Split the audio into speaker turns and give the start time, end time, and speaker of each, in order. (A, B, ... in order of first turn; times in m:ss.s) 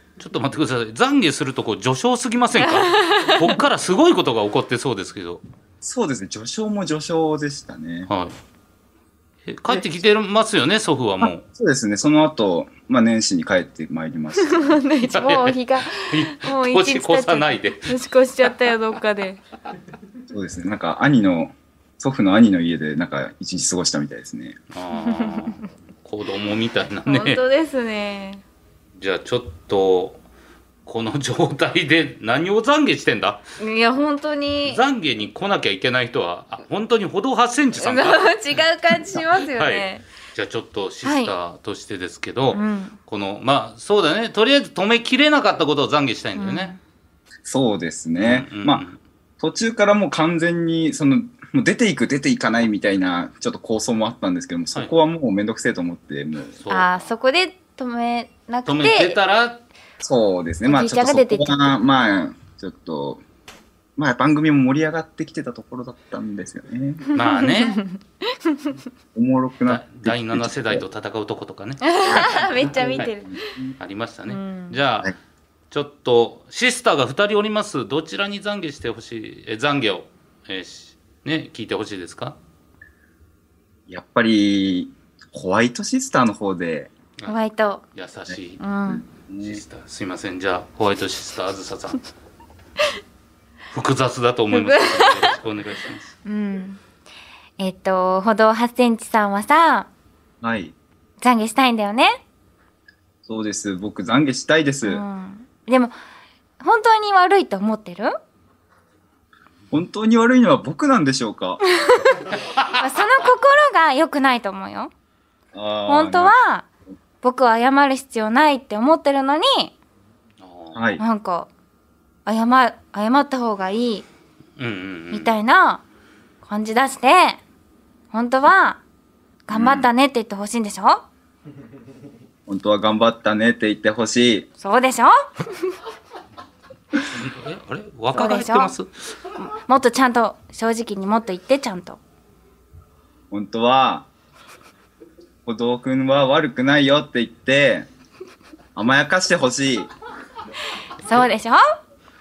0:00.2-0:05.4 A
0:02.6-0:03.6 B
0:05.8-0:08.1 C
0:08.1-0:08.4 A
0:09.5-0:11.4 A
0:11.2-0:14.8 C
0:14.4-0:19.4 B
0:15.0-0:17.9 A
0:20.3-0:24.6 C
0:24.7-0:27.4 A
0:25.0-0:25.5 B
0:27.0-0:28.4 B
0:29.0-0:30.2 A
0:30.8-0:33.4 A
0:33.6-0:34.8 B
0:34.6-0:38.3 A
0:37.8-0:40.0 B
0:39.1-0:46.7 A
0:41.0-0:41.3 B
0:42.5-0:43.0 B
0:46.4-0:46.8 B
0:47.4-0:48.8 C
0:48.2-0:49.0 A
0:49.4-0:56.6 C
0:56.6-0:57.1 A
0:56.7-0:59.2 B
0:58.6-0:59.6 A
1:00.0-1:03.2 C
1:00.6-1:01.7 B
1:04.0-1:07.1 C
1:07.1-1:08.8 B
1:07.1-1:07.8 A
1:09.1-1:10.8 C
1:09.7-1:12.4 A
1:11.8-1:13.5 B
1:12.1-1:13.7 C
1:13.8-1:15.1 A
1:14.3-1:14.8 B
1:15.7-1:22.4 A
1:23.9-1:26.9 C
1:27.3-1:27.8 B
1:27.9-1:28.6 A
1:28.6-1:29.0 B
1:28.9-1:29.6 C
1:29.4-1:32.0 A
1:33.7-1:36.1 A
1:34.5-1:35.4 B
1:36.2-1:36.8 B
1:37.6-1:39.9 B
1:40.4-1:40.7 C
1:41.2-1:42.2 B
1:43.2-1:45.0 C
1:44.8-1:45.9 B
1:46.6-1:48.1 B
1:49.7-1:51.6 C
1:51.8-1:52.2 B
1:52.8-1:54.9 B
1:55.5-1:56.4 C
1:55.9-1:56.6 B
1:57.2-1:59.7 B
2:00.4-2:00.8 A
2:00.7-2:01.0 C
2:01.0-2:01.5 B
2:02.2-2:04.0 B
2:04.6-2:05.3 A
2:05.1-2:05.8 B
2:06.4-2:07.4 B
2:08.1-2:08.8 B
2:09.5-2:11.0 B
2:09.5-2:09.9 C
2:12.5-2:14.5 C
2:14.6-2:15.1 B
2:17.1-2:18.9 A
2:18.1-2:18.7 B
2:19.4-2:22.0 B
2:23.3-2:24.1 C
2:25.4-2:27.9 C
2:28.7-2:29.9 C
2:31.0-2:31.6 B